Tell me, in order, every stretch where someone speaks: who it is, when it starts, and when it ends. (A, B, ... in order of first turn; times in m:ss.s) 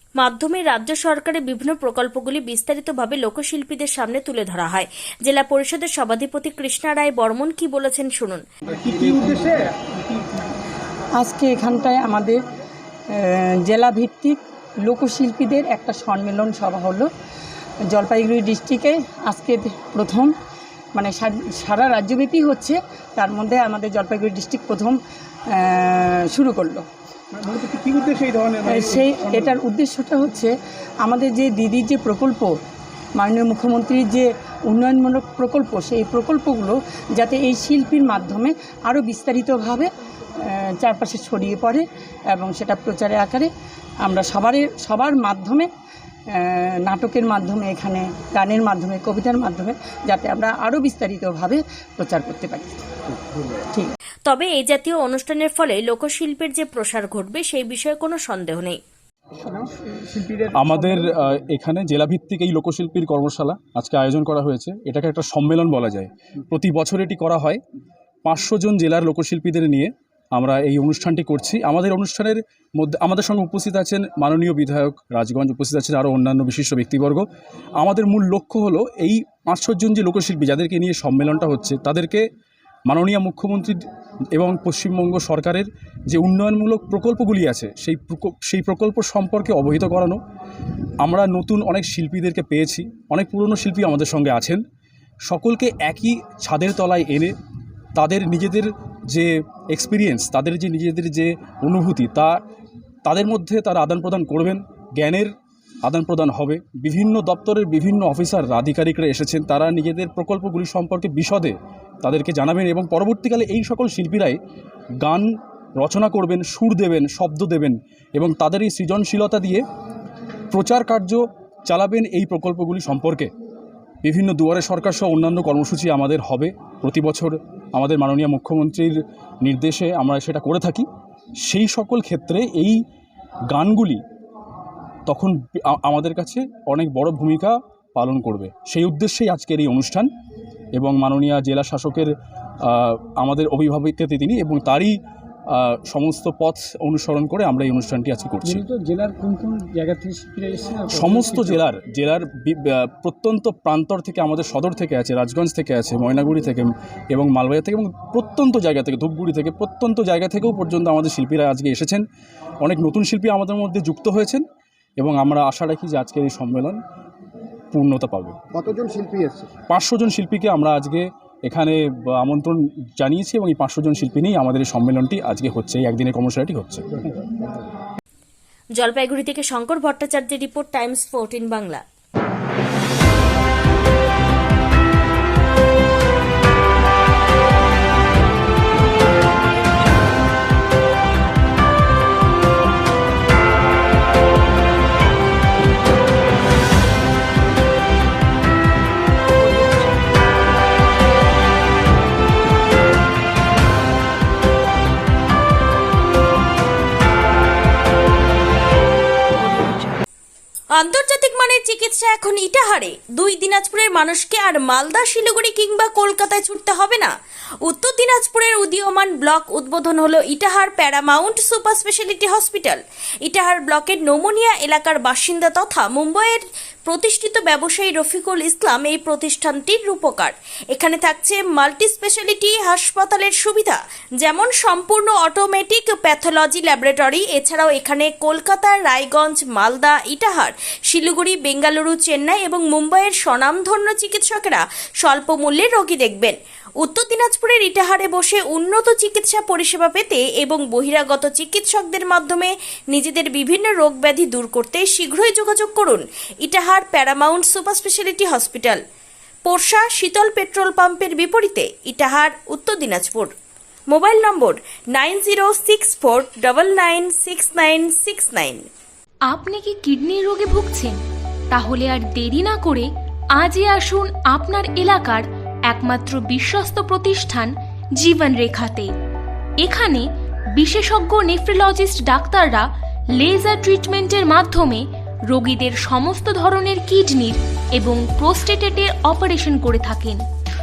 0:00.2-0:08.4 A
0:08.7-0:10.2 B
0:11.2-0:12.4 C
0:13.2-0:17.1 C
0:17.9-0:20.3 C
0:21.0-0:25.0 C
0:25.6-0:26.8 C
0:27.4-0:29.5 B
0:28.6-0:30.5 C
0:31.0-0:32.5 C
0:33.2-0:39.9 C
0:40.8-0:43.5 C
0:44.1-0:45.7 C
0:46.4-0:52.8 C
0:54.3-0:58.8 A
0:59.4-1:01.2 B
1:00.5-1:07.6 D
1:08.2-1:17.3 D
1:17.8-1:22.3 D
1:22.9-1:23.8 D
1:24.4-1:30.2 D
1:31.0-1:34.6 D
1:35.3-1:37.4 D
1:38.0-1:42.4 D
1:43.0-1:45.3 D
1:45.8-1:54.4 D
1:55.0-1:59.6 D
2:00.5-2:03.3 D
2:04.0-2:10.9 D
2:11.4-2:12.8 D
2:13.5-2:14.0 D
2:15.1-2:20.1 D
2:20.8-2:22.1 D
2:22.6-2:28.6 D
2:28.4-2:31.6 B
2:30.9-2:42.0 D
2:42.6-2:44.4 D
2:45.0-2:46.8 D
2:47.7-2:48.4 D
2:48.6-2:49.5 B
2:49.7-2:56.9 D
2:58.8-3:01.8 A
3:29.4-3:29.9 A
3:30.7-3:37.1 A
3:37.6-4:18.8 A
4:19.4-4:23.3 A
4:23.9-4:28.7 A
4:29.3-4:31.0 E
4:31.5-4:38.9 E
4:39.6-4:40.1 E
4:40.6-4:50.2 E